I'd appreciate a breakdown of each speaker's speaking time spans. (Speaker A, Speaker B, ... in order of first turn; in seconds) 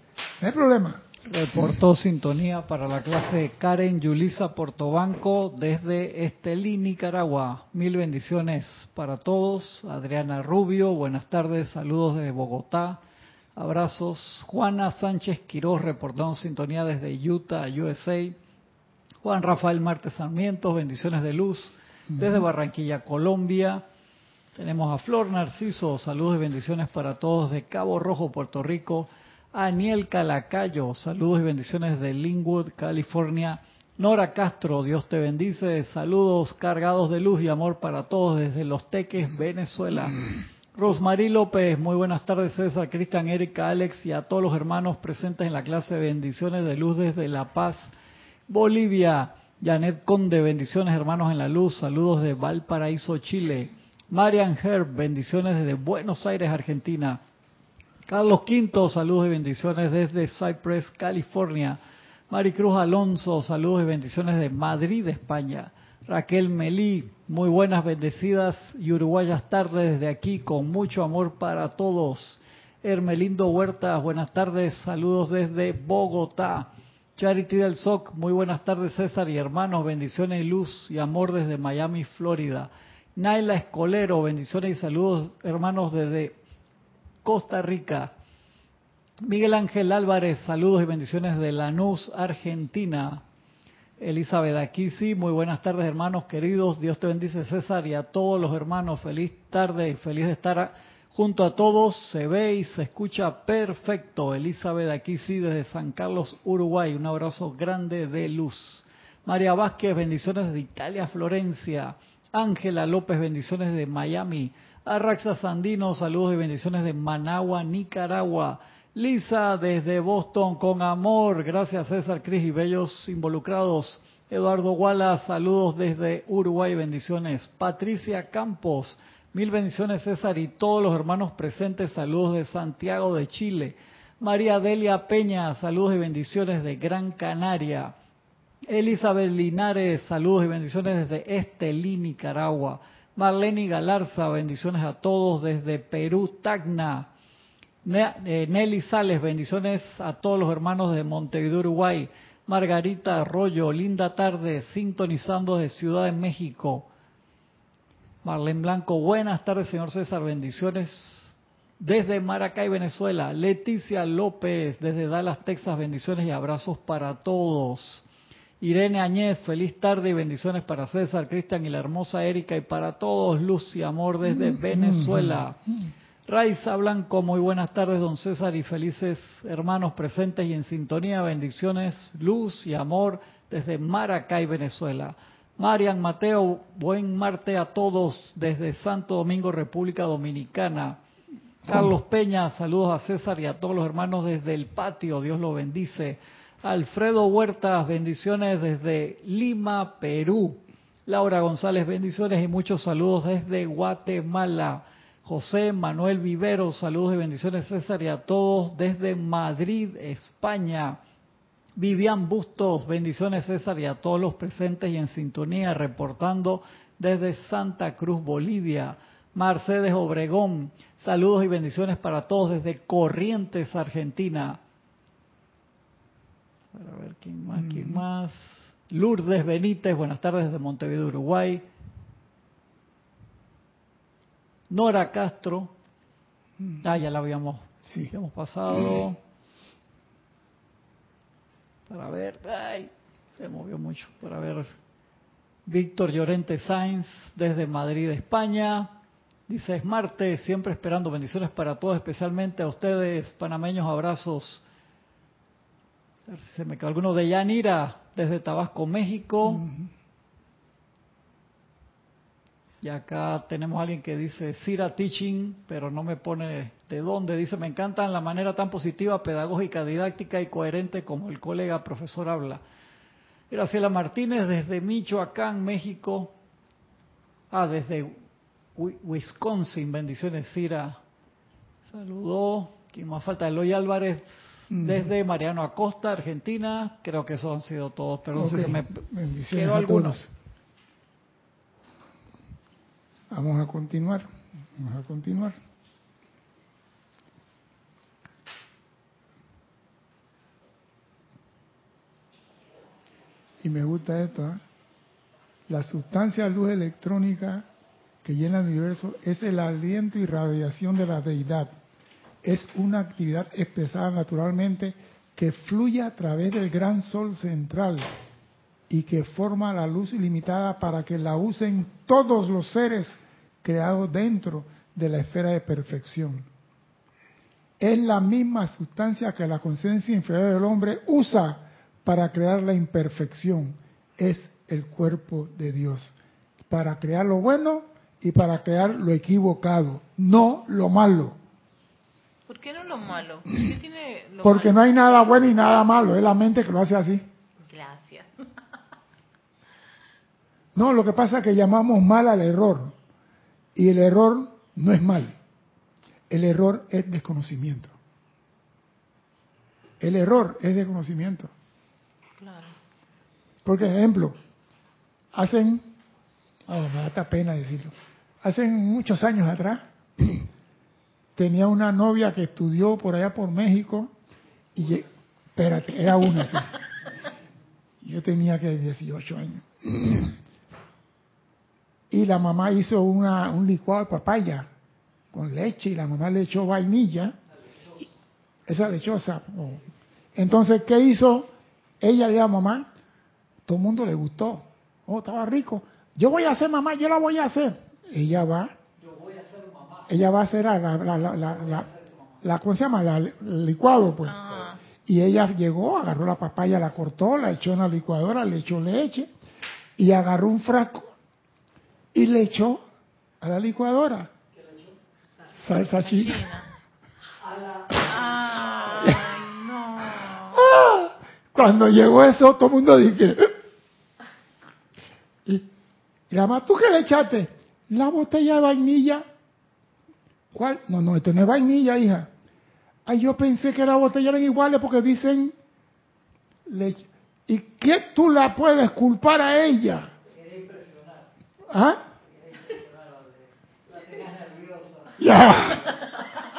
Speaker A: 0.4-1.0, 22.1-22.4, 174.2-175.4, 191.7-191.9, 227.6-228.0, 237.8-238.1, 259.5-259.9, 284.7-285.1, 288.4-290.3, 293.3-295.6, 303.6-304.6, 305.7-307.7, 308.2-311.7, 312.4-318.1, 318.9-326.5, 327.8-336.1, 336.7-341.4, 344.4-347.2, 350.7-352.9, 353.7-355.3, 356.3-357.9, 360.0-361.5, 363.6-364.4, 365.3-365.9, 366.7-370.4, 371.4-374.1, 374.7-376.7, 378.0-380.4, 382.1-384.7, 385.3-387.3, 388.7-389.8, 390.4-392.9, 393.6-398.8, 400.1-401.9, 402.4-409.3, 410.0-411.1, 412.1-412.8, 413.4-414.3, 415.5-416.4, 419.0-419.2, 420.5-423.5, 426.3-429.2, 430.5-432.3, 433.1-435.5, 436.6-440.1, 441.7-442.0, 445.2-445.9
Speaker B: 1.2-13.0, 13.6-18.4, 19.2-23.8, 24.6-47.9, 48.5-57.2, 58.1-61.8, 62.3-86.4, 87.2-88.1, 89.2-93.2, 94.0-137.9, 138.7-147.1, 147.8-156.9, 158.2-168.0, 168.6-175.6, 176.3-191.0, 191.7-211.0, 211.8-224.6, 226.7-231.6, 234.7-235.7, 236.8-239.2, 241.9-244.8, 245.7-248.9, 249.5-254.6, 256.3-259.7, 262.8-272.6, 273.5-276.3, 277.5-278.2, 278.8-281.0, 281.9-288.9, 289.5-290.1, 399.0-400.2, 401.4-402.4, 414.5-415.0, 417.4-419.2, 440.3-441.3, 442.3-445.2
Speaker C: 342.5-344.8, 347.6-348.3, 362.4-362.7, 404.2-404.8, 416.0-416.7, 418.1-420.6